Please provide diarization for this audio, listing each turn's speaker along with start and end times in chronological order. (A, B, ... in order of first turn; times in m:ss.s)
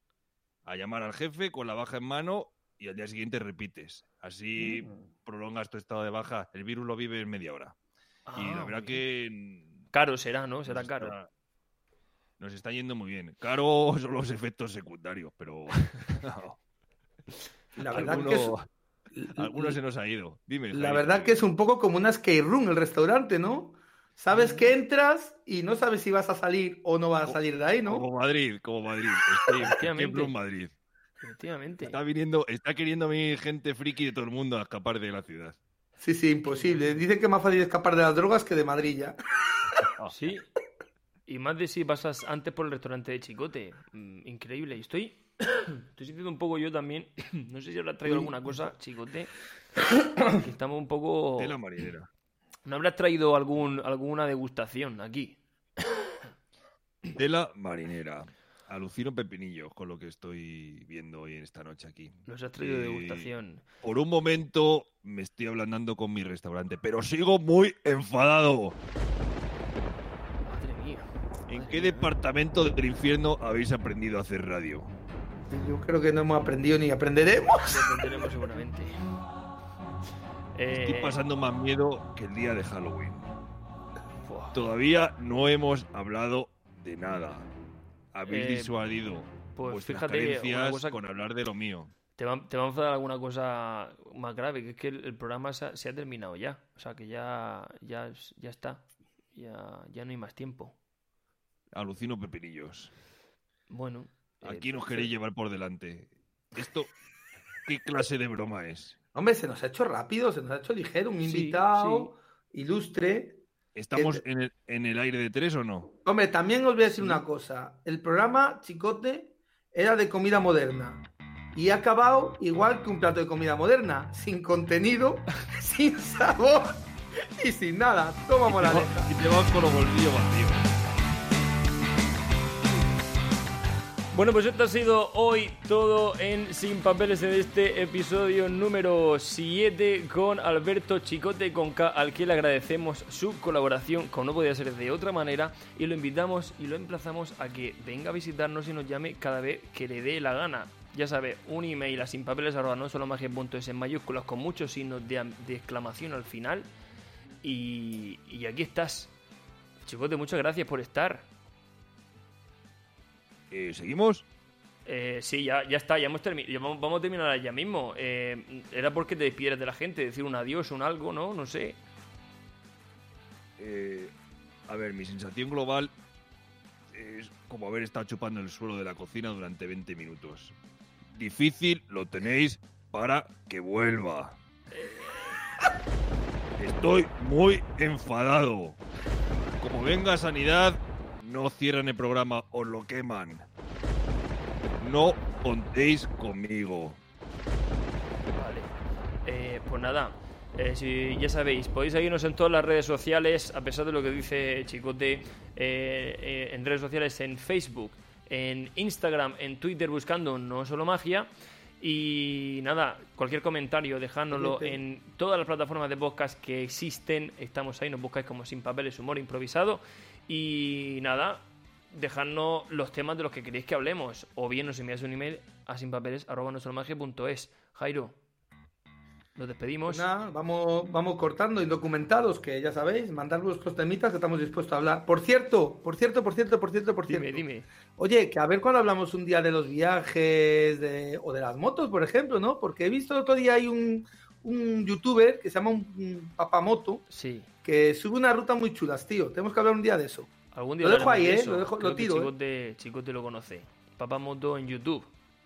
0:00.6-0:07.7 A
0:08.3-0:09.0 B
0:08.3-0:09.8 A
0:09.9-0:11.1 B
0:10.7-0:11.3 A
0:12.4-0:16.6 A
0:17.8-0:18.5 C
0:17.9-0:18.6 A
0:19.1-0:19.8 C
0:19.4-0:21.4 A
0:20.7-0:28.0 C
0:24.3-0:24.7 B
0:27.2-0:30.7 A
0:29.5-0:30.3 B
0:31.2-0:32.0 B
0:31.8-0:35.6 A
0:36.0-0:39.1 C
0:36.5-0:37.0 B
0:40.1-0:40.5 B
0:41.3-0:49.3 B
0:48.0-0:48.7 C
0:50.3-0:51.5 B
0:51.4-0:52.1 A
0:52.6-0:55.4 B
0:57.1-1:03.3 A
1:02.2-1:03.6 B
1:03.8-1:08.8 A
1:10.4-1:12.1 B
1:11.5-1:14.9 A
1:15.5-1:18.3 C
1:17.5-1:19.0 B
1:20.5-1:21.2 B
1:20.7-1:23.2 A
1:24.2-1:24.6 B
1:24.5-1:27.5 A
1:28.1-1:31.9 A
1:28.3-1:28.7 B
1:29.5-1:31.0 B
1:32.2-1:40.8 B
1:41.7-1:42.9 A
1:43.7-1:45.1 B
1:44.4-1:46.9 A
1:47.6-1:49.0 A
1:49.1-1:53.4 C
1:51.2-1:52.1 B
1:53.7-1:55.9 A
1:53.9-1:54.2 C
1:56.0-2:06.8 C
2:07.4-2:09.1 C
2:08.5-2:10.7 A
2:14.1-2:36.7 B
2:37.4-2:39.1 B
2:39.8-2:41.3 B
2:43.5-2:44.2 A
2:44.8-2:51.8 B
2:53.6-2:54.1 A
2:54.7-2:55.9 A
2:56.9-3:00.5 A
3:01.1-3:04.4 A
3:04.7-3:05.4 B
3:06.6-3:08.8 A
3:09.6-3:13.4 A
3:14.8-3:17.0 A
3:18.4-3:18.7 B
3:19.2-3:31.3 B
3:31.8-3:48.2 B
3:34.3-3:34.8 C
3:49.4-3:50.1 B
3:49.9-3:57.4 C
3:57.1-3:57.7 B
3:58.0-4:07.0 C
4:07.1-4:07.5 B
4:07.6-4:12.3 C
4:10.5-4:15.1 B